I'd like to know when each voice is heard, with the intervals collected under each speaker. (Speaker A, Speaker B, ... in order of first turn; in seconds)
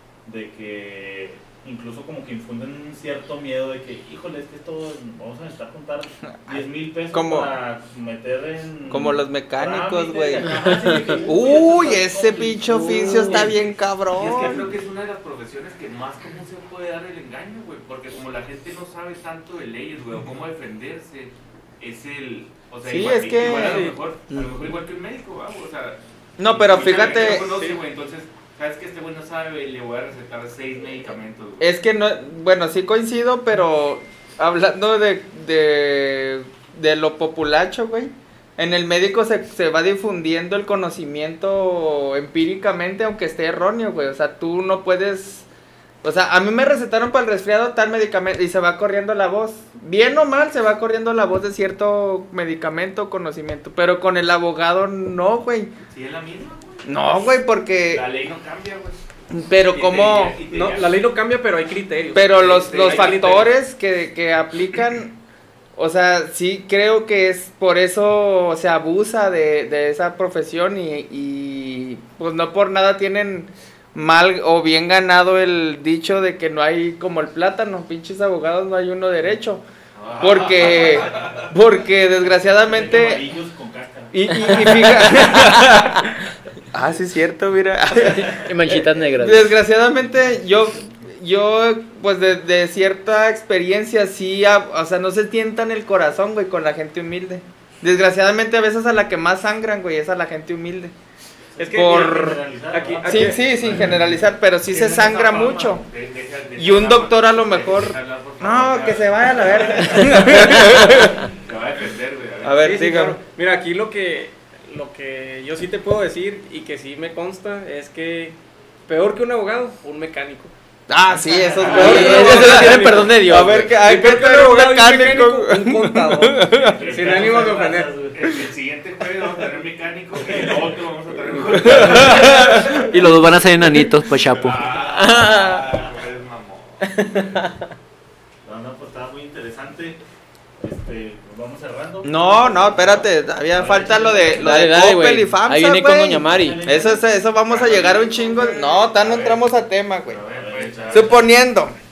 Speaker A: 0.2-13.6, 80.3-81.2, 82.6-84.2, 101.5-104.2, 121.5-122.2, 126.5-128.4, 130.2-130.7, 131.5-132.8, 138.4-140.0, 140.6-144.7, 146.2-147.1, 150.3-151.2
Speaker B: 6.5-7.5, 8.9-10.6, 11.2-14.7, 22.8-23.9, 26.4-27.5, 31.6-45.5, 46.0-55.7, 56.8-58.0, 59.3-60.4, 62.1-65.2, 65.8-79.6, 80.2-83.2, 84.1-86.1, 86.7-100.9, 101.7-102.4, 103.1-105.8, 106.6-111.2, 112.4-113.2, 120.9-126.8, 142.0-150.2, 150.9-151.8
Speaker C: 10.5-11.2, 12.9-13.4, 24.3-24.7, 88.0-89.5, 121.7-123.7, 131.6-135.7, 136.8-137.6, 144.3-146.7
Speaker D: 13.3-13.5, 14.1-31.7, 55.9-57.3, 57.9-59.0, 59.7-61.0, 62.4-63.5, 80.0-81.5, 104.7-112.9, 126.8-127.5, 128.1-133.7, 134.3-137.4, 147.5-149.4, 150.1-151.2
Speaker E: 23.3-24.0, 26.8-27.8, 60.5-63.5, 101.6-103.4, 112.6-118.3, 118.9-120.5, 121.8-123.0, 123.7-127.9